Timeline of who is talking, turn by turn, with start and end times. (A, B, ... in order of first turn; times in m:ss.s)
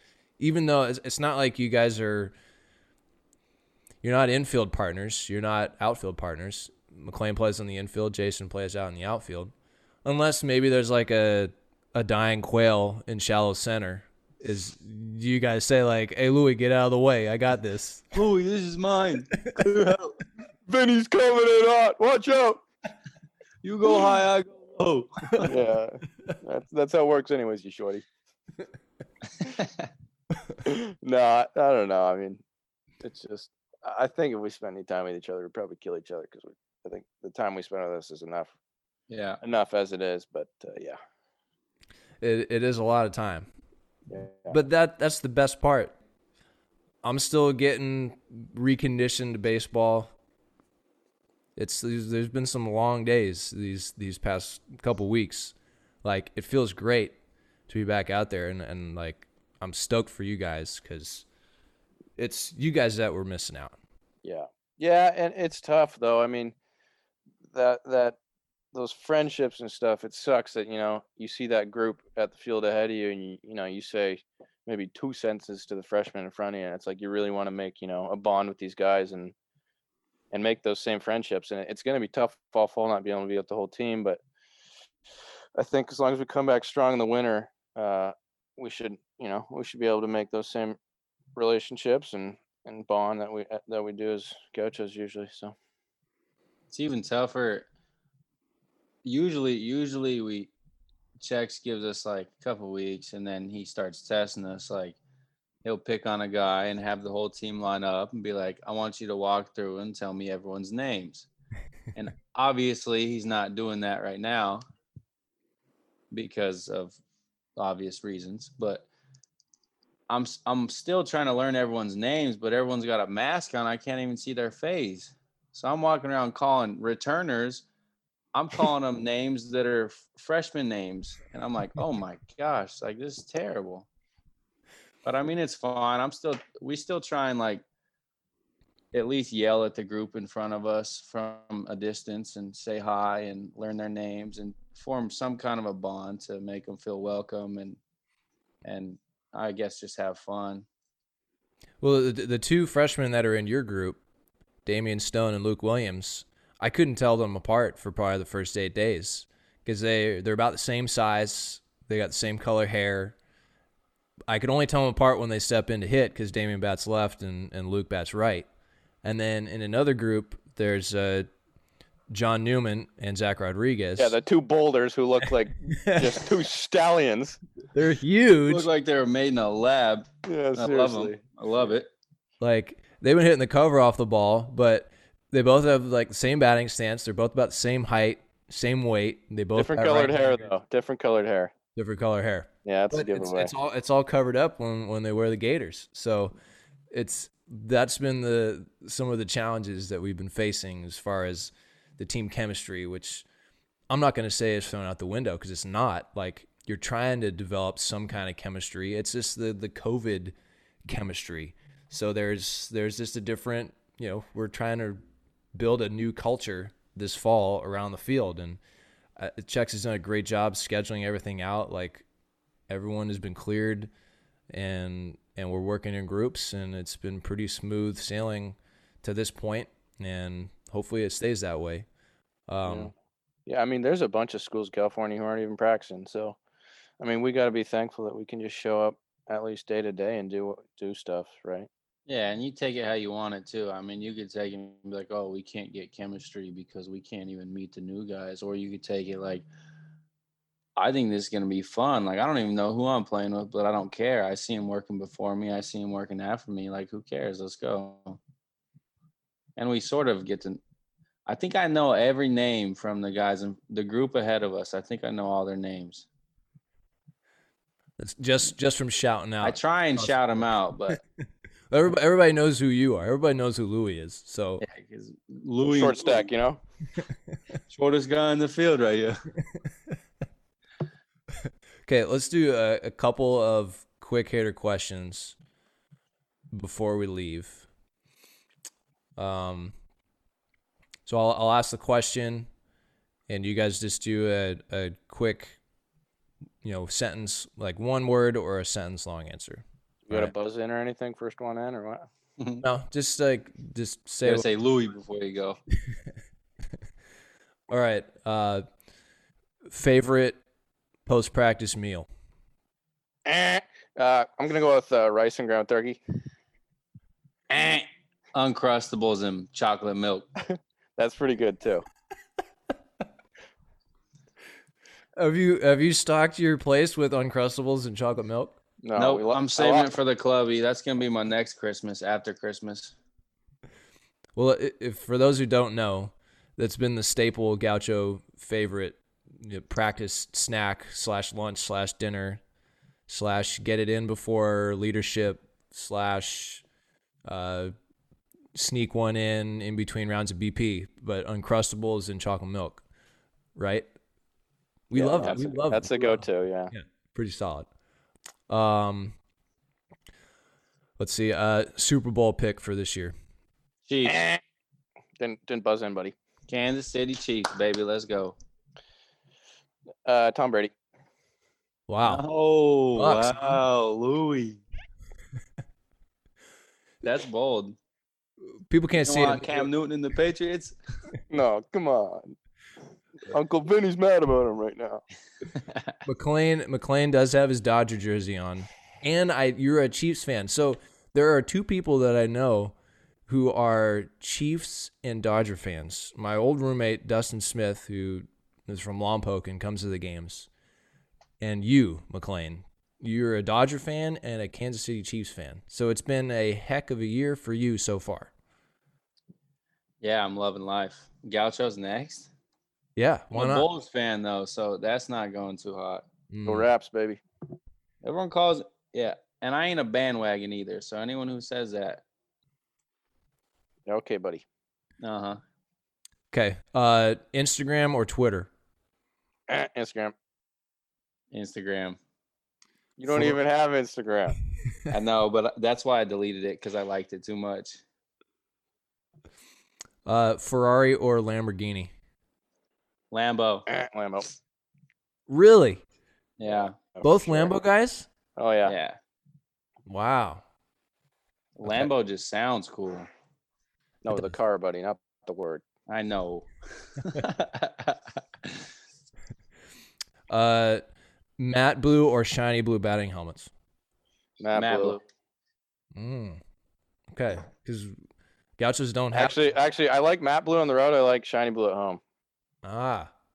0:00.4-0:02.3 A
0:04.0-0:09.5 A
0:10.0-0:18.1 A
0:18.1-0:20.2 B
0:20.7-0:22.6 C
0:23.6-0:25.6 B
0:25.5-0:28.0 C
0:29.6-0:29.9 B
0:30.6-0:32.4 C
0:33.0-0:38.5 C
0:39.1-0:39.4 B
0:39.4-0:41.0 C
0:42.2-0:43.5 A
0:44.1-0:44.6 C
0:44.5-0:46.0 A
0:47.0-0:50.1 A
0:51.6-0:57.2 A
0:57.7-1:01.2 A
1:02.2-1:03.8 A
1:04.2-1:06.6 C
1:07.5-1:08.2 C
1:08.7-1:19.3 C
1:20.3-1:24.2 C
1:25.6-1:30.8 C
1:31.4-1:35.6 C
1:36.7-1:37.7 B
1:39.0-1:40.5 B
1:41.2-1:45.0 B
1:45.6-1:51.3 B
1:52.0-1:54.6 B
1:56.1-1:57.0 B
1:57.6-1:58.9 B
2:00.1-2:07.7 B
2:08.3-2:13.9 B
2:15.0-2:17.6 B
2:18.9-2:27.8 B
2:28.6-2:30.7 B
2:31.8-2:34.0 A
2:34.6-2:43.2 A
2:44.3-2:48.5 A
2:49.0-2:51.3 A
2:52.1-2:54.2 A
2:54.0-2:57.4 C
2:55.7-2:56.2 A
2:57.7-2:58.7 A
2:58.5-3:01.9 B
3:00.3-3:01.2 C
3:02.4-3:10.5 A
3:09.6-3:11.5 C
3:11.8-3:16.4 A
3:12.6-3:13.5 C
3:16.9-3:23.2 A
3:23.9-3:30.4 A
3:30.9-3:38.6 A
3:39.2-3:42.0 A
3:42.7-3:43.9 A
3:44.5-3:51.9 A
3:52.5-3:52.9 A
3:52.6-3:52.9 C
3:53.5-3:56.4 C
3:57.0-4:01.7 C
4:02.1-4:09.5 B
4:10.8-4:18.2 B
4:19.6-4:20.6 B
4:21.3-4:26.1 B
4:28.0-4:30.2 A
4:29.4-4:31.0 B
4:31.7-4:34.6 A
4:34.6-4:36.3 B
4:35.6-4:36.6 C
4:37.7-4:39.2 B
4:41.9-4:45.4 A
4:46.5-4:47.7 A
4:49.2-4:49.8 A
4:51.1-4:52.5 A
4:53.3-4:55.6 A
4:56.6-5:00.3 A
5:00.1-5:02.1 C
5:02.6-5:04.4 A
5:04.2-5:05.6 B
5:07.7-5:08.6 A
5:09.7-5:10.4 A
5:11.1-5:12.1 A
5:13.3-5:16.0 C
5:17.5-5:20.3 B
5:20.4-5:21.9 C
5:25.2-5:28.6 A
5:28.8-5:29.9 C
5:29.0-5:33.0 B
5:34.4-5:42.4 A
5:43.1-5:46.6 A
5:47.3-5:47.7 A
5:48.6-5:52.8 A
5:53.6-5:53.9 A
5:54.9-5:57.7 A
5:55.0-5:55.5 B
5:55.1-5:56.7 C
5:58.5-5:59.2 A
6:01.0-6:03.1 A
6:03.9-6:04.2 B
6:04.1-6:04.4 C
6:05.2-6:06.2 C
6:06.5-6:08.4 B
6:10.1-6:10.7 C
6:11.9-6:12.2 A
6:12.0-6:14.6 B
6:13.0-6:13.6 A
6:17.0-6:17.8 B
6:18.7-6:19.5 A
6:19.0-6:20.8 B
6:21.3-6:22.4 C
6:23.3-6:25.0 C
6:25.6-6:25.9 B
6:26.1-6:32.8 A
6:33.3-6:40.5 A
6:41.4-6:48.3 A
6:50.0-6:52.3 B
6:53.0-6:53.7 A
6:53.3-6:56.0 B
6:56.3-6:56.7 A
6:56.5-6:57.2 C
6:58.0-7:02.0 B
7:03.9-7:04.4 C
7:05.0-7:05.4 B
7:06.3-7:08.5 A
7:09.5-7:10.1 C
7:11.3-7:12.0 B
7:13.0-7:14.4 C
7:13.1-7:13.4 A
7:14.9-7:17.8 B
7:20.0-7:21.9 A
7:23.1-7:23.7 B
7:23.7-7:24.3 C
7:25.3-7:25.8 A
7:26.4-7:26.8 B
7:27.0-7:27.5 C
7:27.0-7:28.1 A
7:28.4-7:28.8 C
7:28.6-7:29.0 B
7:29.9-7:30.4 A
7:31.6-7:33.1 B
7:34.0-7:35.6 C
7:35.9-7:38.7 B
7:40.3-7:40.8 A
7:41.4-7:43.5 A
7:44.4-7:45.0 C
7:44.6-7:45.0 B
7:46.0-7:46.4 A
7:47.1-7:48.0 A
7:48.6-7:49.4 A
7:49.1-7:52.0 C
7:52.6-7:53.1 A